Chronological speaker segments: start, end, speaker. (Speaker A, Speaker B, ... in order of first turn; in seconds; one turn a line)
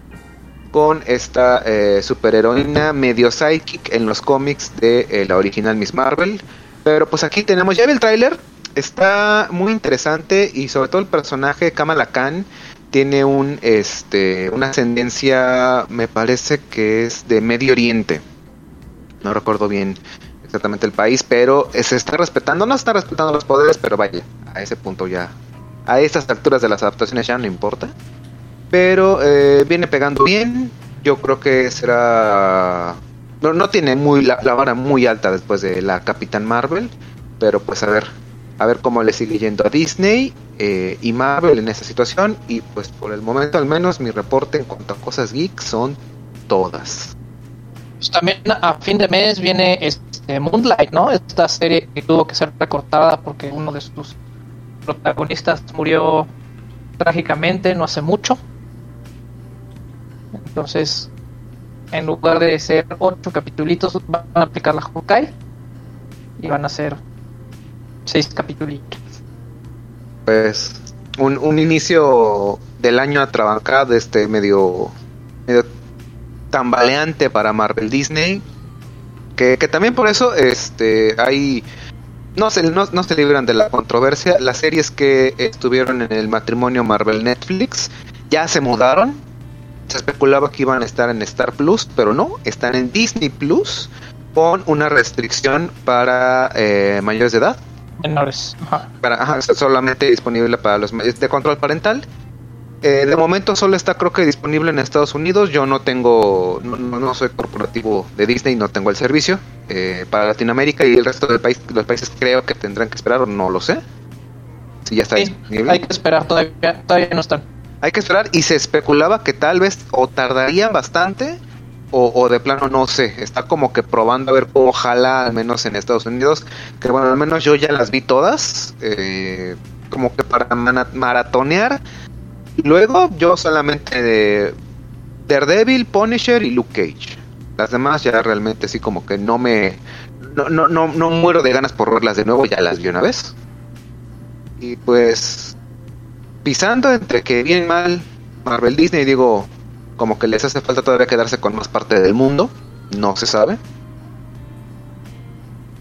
Speaker A: 0.7-18.2
Speaker A: 19.2-25.3
Speaker A: 25.9-27.9
Speaker A: 28.7-47.1
Speaker B: 48.0-54.1
Speaker B: 54.9-56.3
Speaker B: 57.0-58.4
Speaker B: 60.3-61.1
Speaker B: 61.9-65.3
Speaker B: 66.4-67.0
Speaker B: 68.0-69.0
Speaker A: 70.2-74.9
Speaker A: 76.5-78.4
Speaker A: 79.4-81.7
Speaker A: 82.3-89.2
Speaker A: 89.9-97.6
Speaker B: 98.0-98.9
Speaker A: 99.0-102.0
Speaker A: 102.8-113.8
Speaker A: 114.8-115.8
Speaker B: 115.2-117.4
Speaker A: 117.8-121.4
Speaker A: 121.9-131.8
Speaker A: 132.6-134.5
Speaker A: 135.3-143.3
Speaker A: 144.6-145.6
Speaker A: 146.4-153.6